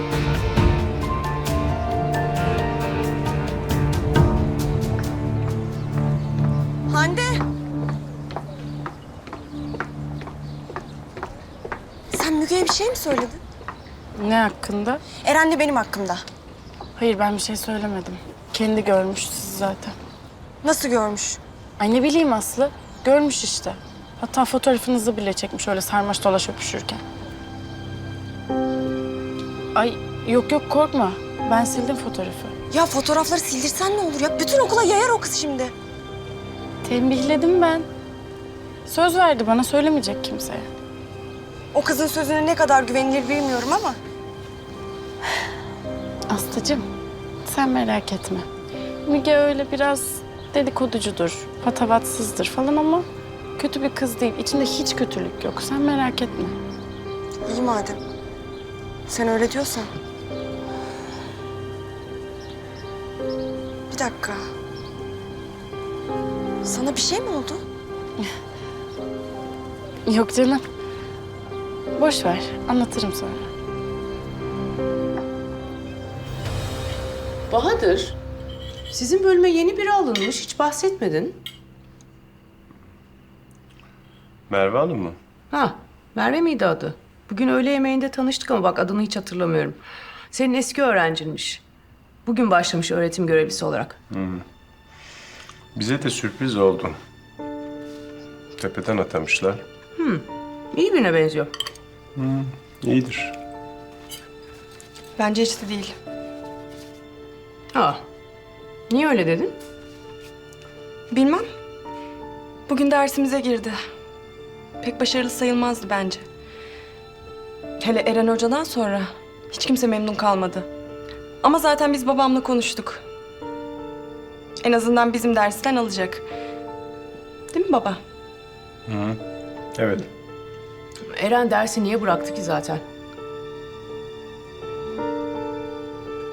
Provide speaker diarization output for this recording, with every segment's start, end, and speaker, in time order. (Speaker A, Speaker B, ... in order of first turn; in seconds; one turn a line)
Speaker A: 6.9-7.4
Speaker A: 12.1-13.4
Speaker B: 14.2-15.0
Speaker A: 15.2-16.2
Speaker B: 17.0-20.0
Speaker A: 20.6-21.4
Speaker B: 21.8-27.0
Speaker B: 29.8-32.5
Speaker A: 32.7-35.7
Speaker B: 36.8-37.9
Speaker B: 38.9-40.7
Speaker A: 41.7-44.0
Speaker B: 46.3-46.9
Speaker B: 47.5-48.5
Speaker B: 49.0-53.1
Speaker B: 53.6-56.5
Speaker A: 57.5-58.0
Speaker A: 59.1-59.9
Speaker A: 63.9-64.4
Speaker A: 66.6-67.6
Speaker B: 70.1-70.7
Speaker B: 72.0-73.5
Speaker C: 77.5-78.2
Speaker C: 78.9-81.4
Speaker D: 84.5-85.2
Speaker C: 85.5-89.8
Speaker C: 90.3-91.6
Speaker C: 92.3-94.0
Speaker D: 94.1-94.4
Speaker D: 95.8-97.0
Speaker D: 98.6-99.6
Speaker C: 100.0-101.5
Speaker D: 102.2-103.3
Speaker A: 105.2-106.0
Speaker C: 107.7-108.0
Speaker C: 108.9-109.6
Speaker A: 111.1-111.5
Speaker A: 112.7-113.8
Speaker A: 114.8-116.2
Speaker A: 117.8-120.7
Speaker A: 121.4-123.0
Speaker A: 124.6-126.3
Speaker A: 127.5-128.0
Speaker D: 128.9-129.2
Speaker D: 129.8-130.1
Speaker C: 131.1-132.8